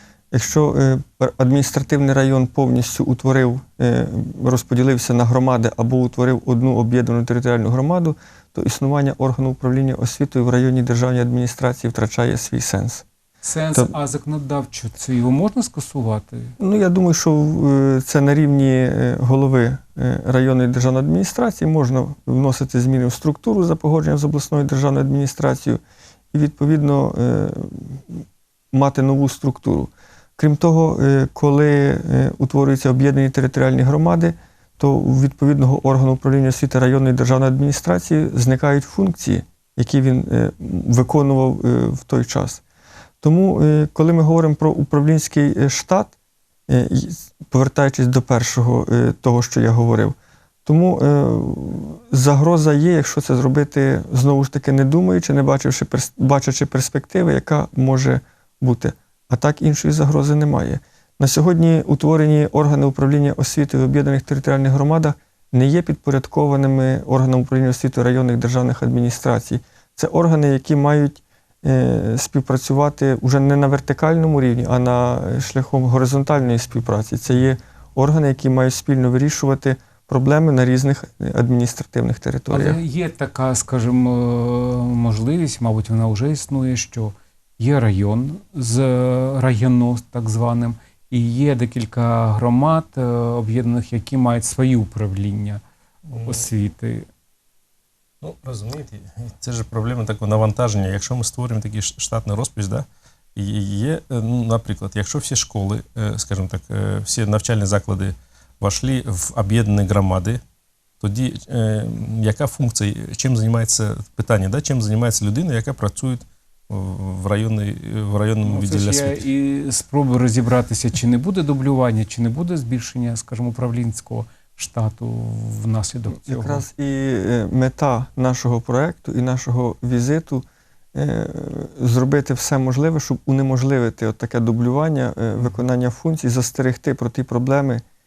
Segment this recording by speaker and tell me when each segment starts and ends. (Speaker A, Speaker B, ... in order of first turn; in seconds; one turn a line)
Speaker A: 0.3-13.1
Speaker B: 13.4-16.5
Speaker A: 16.6-25.8
Speaker A: 26.3-42.6
Speaker A: 43.2-46.1
Speaker A: 46.7-82.8
Speaker B: 82.5-95.6
Speaker C: 96.1-96.4
Speaker B: 96.1-97.1
Speaker C: 98.2-110.4
Speaker C: 111.0-119.2
Speaker B: 118.5-126.6
Speaker A: 126.1-137.8